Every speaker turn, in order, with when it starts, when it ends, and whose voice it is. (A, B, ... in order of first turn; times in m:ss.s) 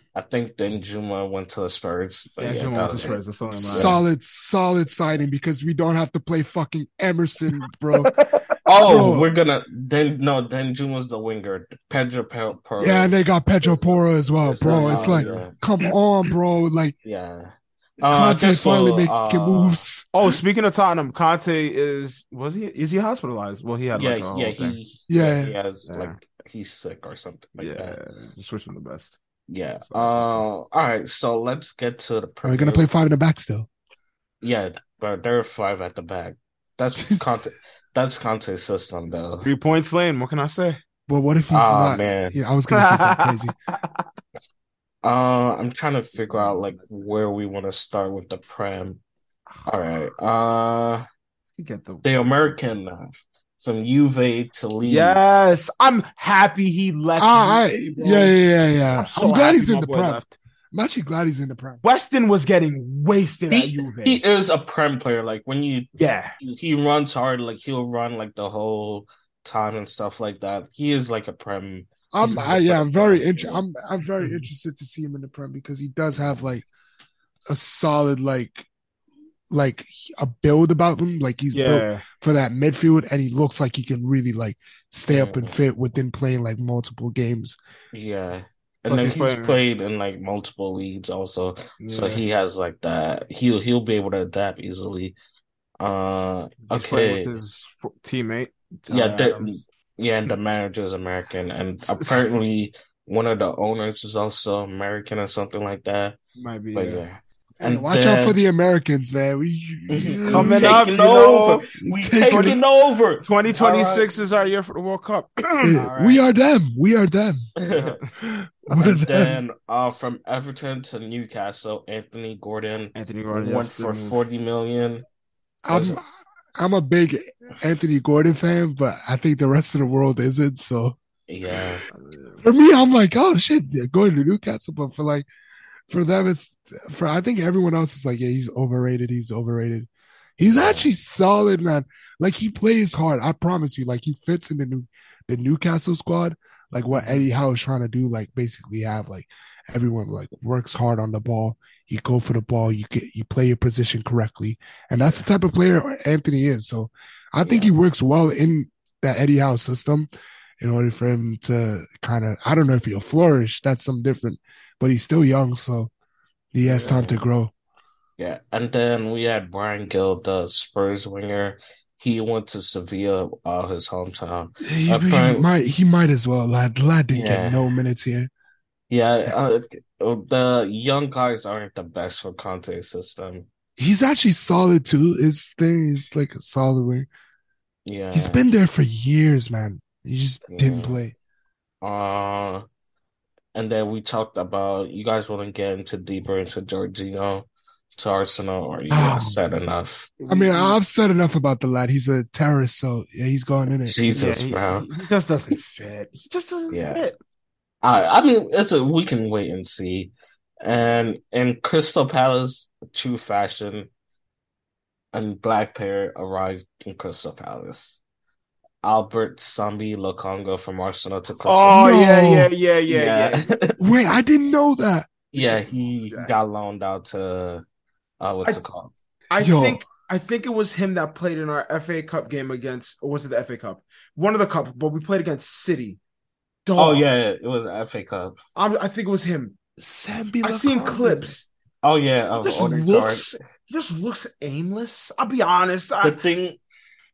0:00.1-0:04.0 A
0:02.4-0:04.0 B
0:03.7-0:08.1 C
0:08.0-0:09.1 B
0:08.6-0:13.1 A
0:08.8-0:09.3 C
0:12.8-0:17.0 C
0:14.4-0:15.5 A
0:14.6-0:15.5 B
0:17.0-0:19.8 A
0:18.0-0:20.1 C
0:20.1-0:24.8 B
0:23.9-0:28.0 A
0:25.1-0:25.5 C
0:25.9-0:26.2 B
0:27.6-0:29.2 B
0:29.5-0:32.9 A
0:29.8-0:30.4 B
0:32.4-0:33.7 C
0:34.4-0:39.5 A
0:39.4-0:40.8 B
0:41.1-0:43.5 C
0:41.5-0:42.4 A
0:42.7-0:44.0 B
0:45.0-0:49.0 A
0:46.2-0:46.8 B
0:49.6-0:51.0 A
0:51.6-0:52.3 B
0:52.0-0:55.2 A
0:54.8-0:58.4 B
0:57.2-1:01.8 C
0:58.9-1:00.4 B
1:01.8-1:04.2 B
1:03.5-1:13.6 A
1:06.0-1:06.3 B
1:12.1-1:16.7 C
1:14.2-1:14.4 B
1:17.5-1:18.7 C
1:19.5-1:27.6 C
1:21.5-1:22.0 B
1:25.1-1:25.6 A
1:27.9-1:35.2 A
1:28.9-1:29.6 B
1:31.8-1:32.2 B
1:35.8-1:37.3 A
1:36.6-1:39.6 B
1:38.9-1:46.2 A
1:41.9-1:42.2 B
1:46.4-1:47.0 B
1:46.7-1:48.4 A
1:47.6-1:50.9 C
1:49.9-1:54.1 A
1:50.3-1:51.6 B
1:51.8-1:52.6 C
1:52.2-1:52.6 B
1:53.2-1:55.9 B
1:55.6-1:57.4 C
1:55.7-1:56.2 A
1:57.6-1:58.0 A
1:57.7-1:58.1 B
1:58.2-1:59.4 C
1:58.7-2:05.0 A
2:02.9-2:04.2 B
2:05.6-2:06.0 C
2:05.7-2:06.0 A
2:06.6-2:11.0 C
2:11.3-2:11.8 A
2:11.9-2:12.4 B
2:12.4-2:15.3 C
2:15.9-2:45.9 C
2:20.4-2:20.9 A
2:26.9-2:27.2 B
2:37.4-2:37.7 A
2:46.5-2:47.5 C
2:46.6-2:47.3 A
2:48.2-2:55.5 A
2:54.6-2:58.3 C
2:57.1-2:57.6 A
2:58.9-3:03.5 A
3:03.8-3:07.1 C
3:07.8-3:08.4 A
3:08.1-3:11.1 C
3:10.5-3:11.0 A
3:11.8-3:12.6 A
3:13.5-3:17.4 A
3:18.0-3:20.1 A
3:18.9-3:19.4 B
3:20.2-3:20.8 B
3:20.3-3:24.0 C
3:23.8-3:24.9 A
3:24.1-3:27.2 B
3:26.7-3:27.0 A
3:27.8-3:33.9 A
3:35.1-3:38.0 A
3:38.8-3:41.8 A
3:41.4-3:43.5 B
3:41.7-3:42.5 C
3:42.9-3:43.8 A
3:43.8-3:45.2 C
3:45.3-3:46.3 B
3:45.3-3:47.6 A
3:48.2-3:48.9 A
3:49.3-3:56.0 B
3:49.4-3:49.8 C
3:56.6-3:57.0 B
3:56.8-3:58.4 A
3:58.5-3:59.6 B
3:59.8-4:01.3 C
4:00.4-4:01.5 B
4:01.8-4:03.3 A
4:02.3-4:06.2 B
4:06.0-4:06.6 A